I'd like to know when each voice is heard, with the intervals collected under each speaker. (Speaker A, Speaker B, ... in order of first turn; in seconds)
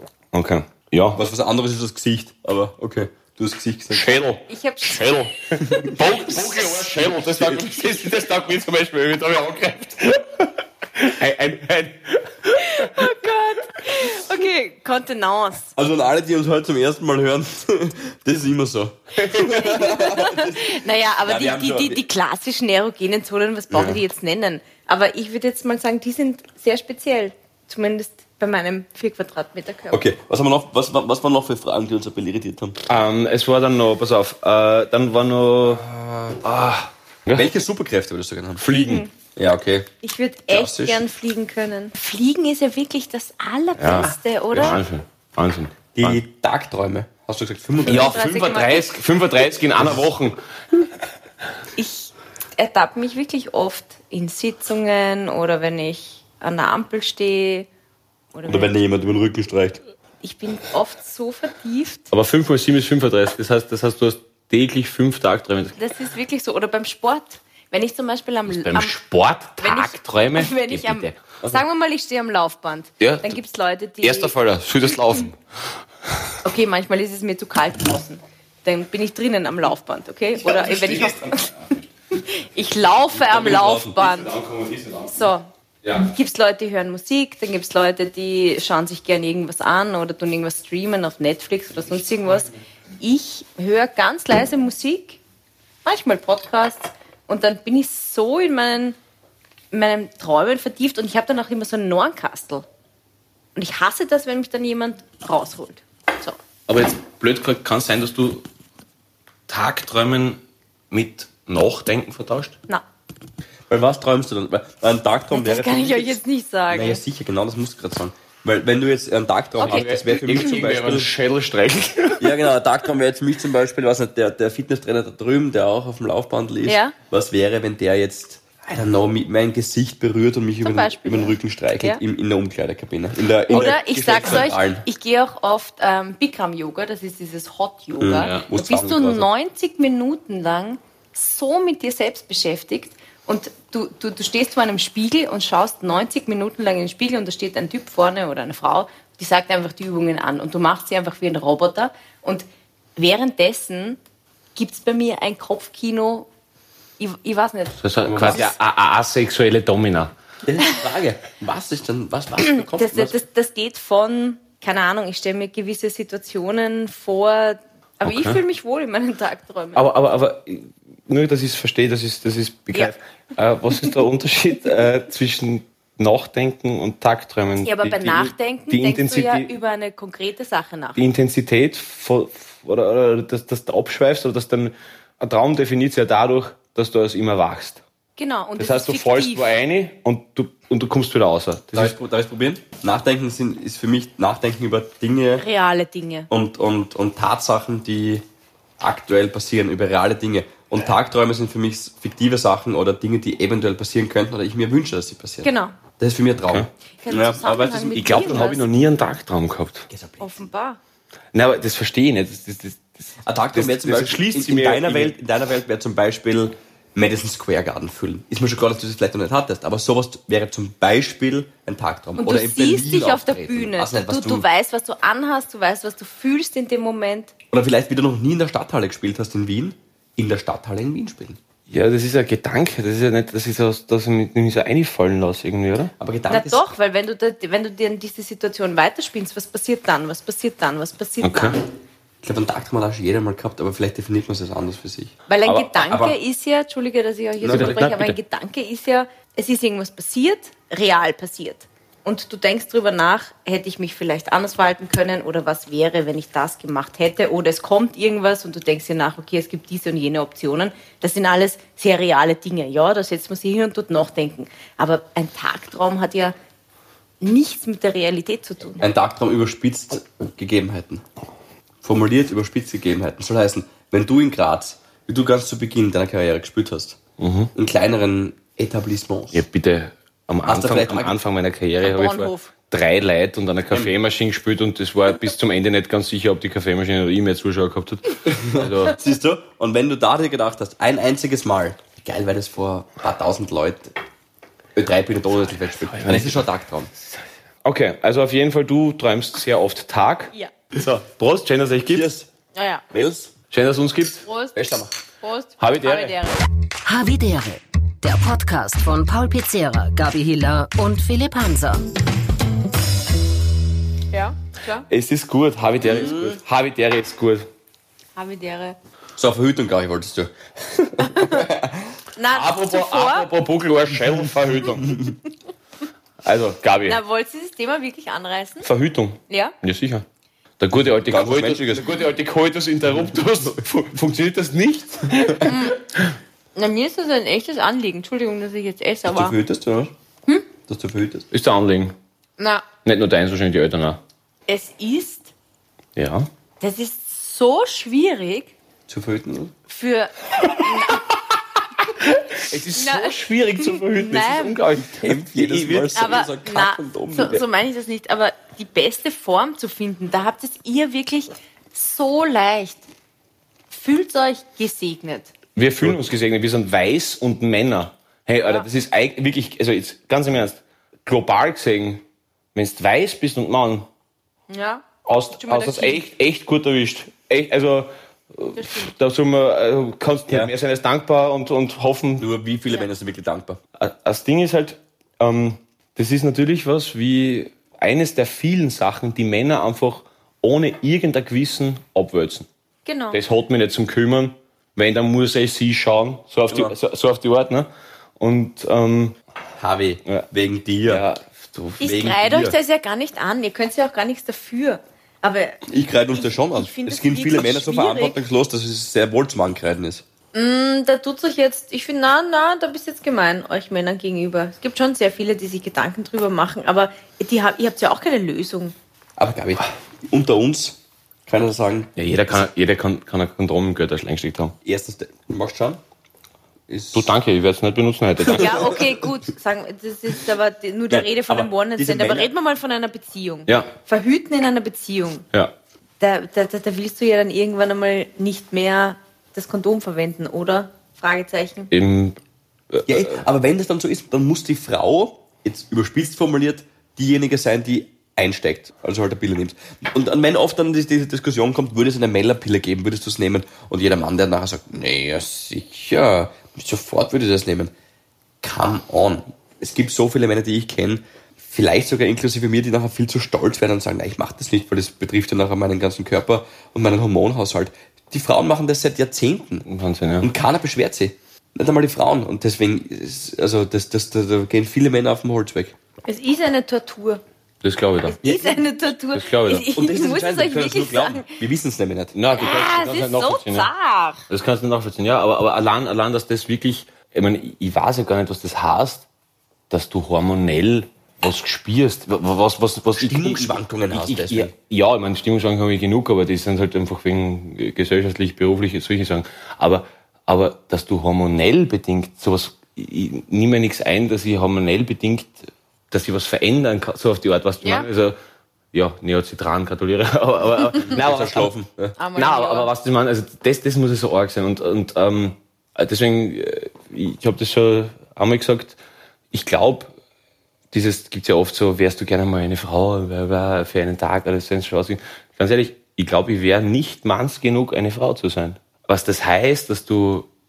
Speaker A: 0.3-1.2, 3.9-13.1, 32.9-35.9, 36.4-37.5, 38.6-39.0, 43.8-46.2, 47.9-50.4, 62.1-65.8, 68.5-71.2, 73.0-73.4, 74.0-75.4, 80.9-81.8, 83.3-85.2, 106.7-108.5, 109.5-110.4, 110.9-112.6, 119.6-122.5, 138.2-138.5, 157.8-160.1, 168.1-168.4, 169.8-179.5, 181.0-187.8, 188.6-192.0, 206.4-206.7, 207.9-209.9, 211.3-215.2, 231.7-235.9, 241.2-241.6, 245.4-245.8, 247.5-248.2, 277.2-277.5, 279.3-289.0, 295.8-296.5, 297.6-302.1, 303.5-304.3, 305.6-306.2, 314.9-317.5, 322.3-325.0, 326.2-327.0, 328.6-330.1, 330.6-336.1, 341.3-341.9, 342.9-344.0, 346.0-346.3, 352.0-356.2, 365.6-372.0, 372.6-373.9, 375.1-382.3, 383.8-392.5, 393.1-399.2, 400.9-401.9, 422.0-424.6, 426.9-428.7, 441.7-442.2, 442.7-443.2, 469.7-470.3, 477.6-478.2, 479.1-479.7, 482.1-483.7, 484.3-489.1, 489.7-508.2, 508.7-511.5, 512.1-518.8, 519.3-519.9, 520.7-530.3
Speaker B: 1.1-4.2, 6.8-7.8, 15.8-22.0, 23.7-24.0, 29.9-32.8, 35.6-36.4, 37.4-38.6, 39.4-39.9, 40.5-41.0, 46.0-48.4, 58.5-59.8, 80.4-81.4, 83.2-83.9, 113.7-121.1, 122.2-134.9, 138.0-139.3, 158.1-158.5, 160.4-163.2, 191.7-195.5, 196.3-198.2, 198.8-208.4, 209.9-210.3, 213.2-224.5, 227.5-231.4, 236.0-236.7, 242.2-245.1, 245.8-246.2, 247.4-247.8, 268.8-271.0, 271.8-277.0, 277.6-279.4, 280.5-281.2, 288.3-293.9, 294.8-296.9, 301.9-302.3, 302.9-303.3, 304.6-304.9, 315.8-316.4, 319.2-322.0, 324.9-325.1, 331.1-332.0, 339.1-339.9, 340.7-341.3, 348.9-349.5, 354.7-357.4, 380.3-380.5, 382.2-383.6, 396.5-396.8, 399.6-401.1, 401.8-402.6, 405.7-410.0, 419.2-421.9, 424.6-425.8, 426.7-427.1, 428.3-428.9, 430.9-432.3, 442.9-457.7, 458.4-469.7, 470.2-475.8, 478.2-478.5, 479.7-482.1, 493.0-494.5, 510.9-512.0
Speaker C: 4.5-5.0, 5.9-6.6, 12.5-15.7, 19.3-30.1, 38.7-39.1, 40.0-44.8, 47.8-48.9, 51.8-57.7, 58.3-58.7, 60.2-62.1, 65.8-68.9, 69.6-74.3, 76.4-81.5, 82.1-84.3, 85.1-95.2, 95.8-99.0, 99.7-102.7, 103.6-106.4, 115.3-117.0, 119.6-119.9, 126.7-127.0, 130.6-132.0, 133.5-154.0, 154.6-156.3, 157.0-157.8, 162.5-169.9, 177.6-181.0, 188.2-189.5, 195.4-196.3, 205.4-205.8, 207.0-208.7, 210.2-210.8, 222.2-227.3, 236.3-241.6, 245.3-266.4, 267.2-268.9, 281.8-282.5, 302.5-302.8, 304.2-304.7, 305.2-306.4, 314.1-314.9, 318.1-318.8, 321.0-321.4, 322.2-323.3, 326.9-328.7, 329.3-329.6, 335.4-335.8, 336.6-339.4, 342.4-342.6, 344.5-345.3, 346.6-348.5, 349.7-351.1, 352.8-354.6, 355.9-362.9, 363.7-365.3, 374.5-374.9, 375.4-376.0, 378.6-378.9, 392.9-393.2, 401.8-405.6, 406.1-408.2, 410.3-418.8, 428.3-435.3, 436.0-441.7, 476.1-477.2, 478.1-481.3, 482.3-484.2, 512.0-512.7
Speaker D: 306.9-311.9